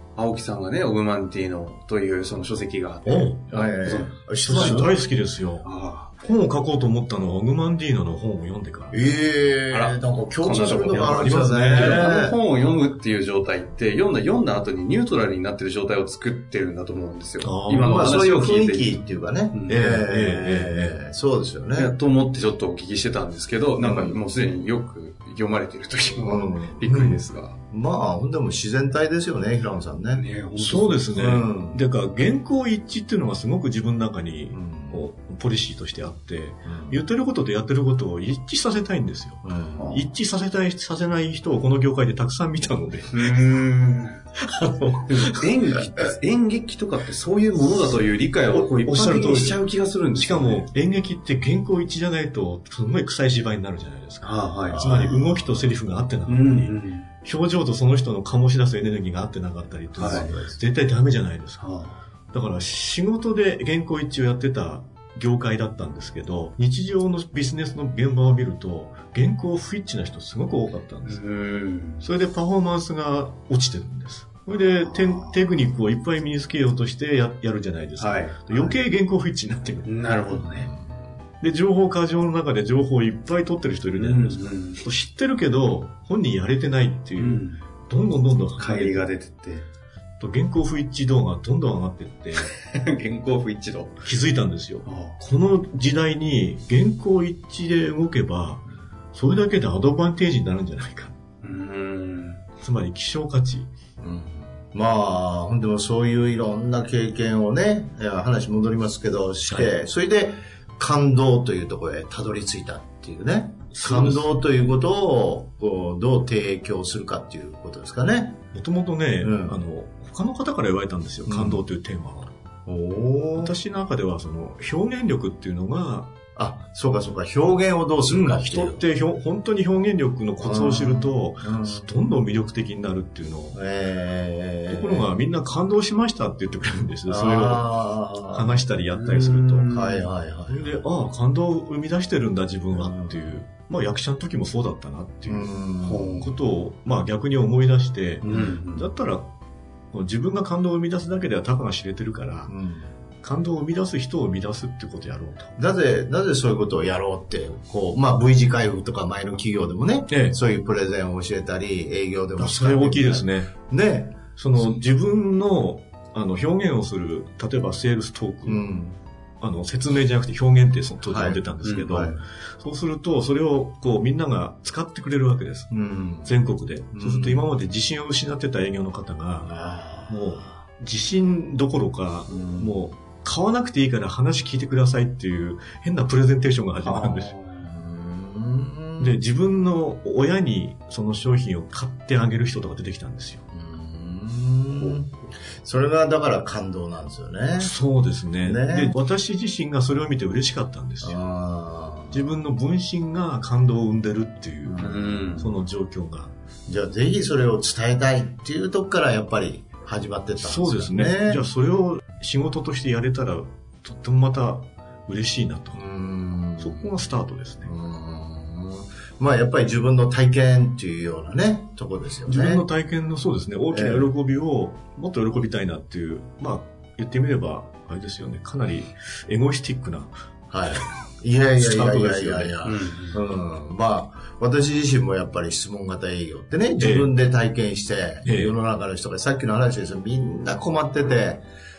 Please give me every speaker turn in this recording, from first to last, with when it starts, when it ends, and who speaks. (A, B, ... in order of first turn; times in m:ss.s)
0:00.2-0:04.9 A
0:03.0-0:05.0 B
0:03.1-0:03.4 C
0:04.4-0:05.7 C
0:05.6-0:06.1 A
0:06.2-0:08.9 C
0:08.9-0:12.3 B
0:09.7-0:19.0 A
0:10.9-0:12.1 C
0:17.4-0:18.2 C
0:17.8-0:21.9 B
0:19.5-0:19.8 A
0:19.7-0:21.0 C
0:21.8-0:27.6 A
0:23.8-0:24.1 B
0:26.2-0:30.2 B
0:30.2-0:31.2 A
0:30.6-0:39.4 C
0:31.1-0:31.8 B
0:34.5-0:35.0 B
0:36.6-0:37.0 B
0:39.4-0:39.9 B
0:39.9-0:43.2 C
0:43.1-0:44.2 A
0:44.4-0:45.5 C
0:45.1-0:50.6 A
0:48.5-0:49.6 C
0:50.1-1:01.6 C
0:54.2-0:54.8 A
0:54.7-0:55.4 B
0:56.3-0:57.1 A
1:00.0-1:00.3 A
1:00.0-1:00.6 B
1:01.6-1:01.9 A
1:02.3-1:11.2 C
1:11.1-1:12.0 A
1:12.0-1:19.9 C
1:14.7-1:15.4 A
1:18.0-1:18.7 A
1:19.8-1:20.7 A
1:20.5-1:20.8 B
1:21.4-1:29.0 C
1:24.0-1:24.8 A
1:27.2-1:27.6 A
1:28.6-1:29.6 A
1:30.2-1:32.5 C
1:32.4-1:34.0 A
1:34.0-1:41.1 C
1:34.8-1:35.2 A
1:41.4-1:42.4 A
1:42.6-1:43.7 C
1:44.0-1:58.4 B
1:53.7-1:54.3 C
1:58.5-2:02.3 C
1:59.2-1:59.6 B
2:01.3-2:01.6 B
2:02.6-2:03.5 B
2:03.4-2:06.1 C
2:06.4-2:08.8 B
2:08.1-2:13.6 C
2:10.4-2:11.9 B
2:13.5-2:15.1 B
2:14.7-2:17.6 C
2:17.1-2:18.6 B
2:18.3-2:19.7 C
2:18.9-2:20.1 A
2:19.7-2:20.8 B
2:20.5-2:25.5 C
2:22.7-2:23.2 B
2:25.3-2:26.3 B
2:25.8-2:26.3 A
2:26.2-2:29.3 C
2:28.2-2:28.6 B
2:28.2-2:28.9 A
2:29.9-2:32.5 C
2:32.5-2:32.9 B
2:33.2-2:35.5 C
2:35.6-2:44.6 B
2:40.1-2:40.4 C
2:42.4-2:43.5 C
2:44.4-2:48.6 C
2:48.4-2:49.0 B
2:49.4-2:55.7 C
2:51.1-2:52.2 B
2:51.6-2:52.0 A
2:55.7-2:56.4 B
2:56.2-2:59.5 C
2:56.9-2:57.5 B
2:59.4-3:00.6 B
3:00.1-3:07.3 C
3:02.3-3:02.7 B
3:06.8-3:07.6 A
3:07.6-3:09.1 B
3:09.0-3:13.4 C
3:13.5-3:17.7 B
3:17.6-3:21.2 C
3:18.4-3:18.9 B
3:21.0-3:22.2 B
3:22.1-3:26.3 C
3:24.6-3:25.3 B
3:24.8-3:25.5 A
3:26.7-3:31.4 B
3:30.4-3:35.8 C
3:35.7-3:37.0 B
3:36.6-3:37.7 C
3:37.6-3:42.6 B
3:42.2-3:50.1 C
3:43.7-3:44.1 B
3:50.5-4:01.4 B
3:51.6-3:52.6 C
3:52.6-3:53.2 A
3:56.8-3:57.1 C
3:58.2-3:58.5 C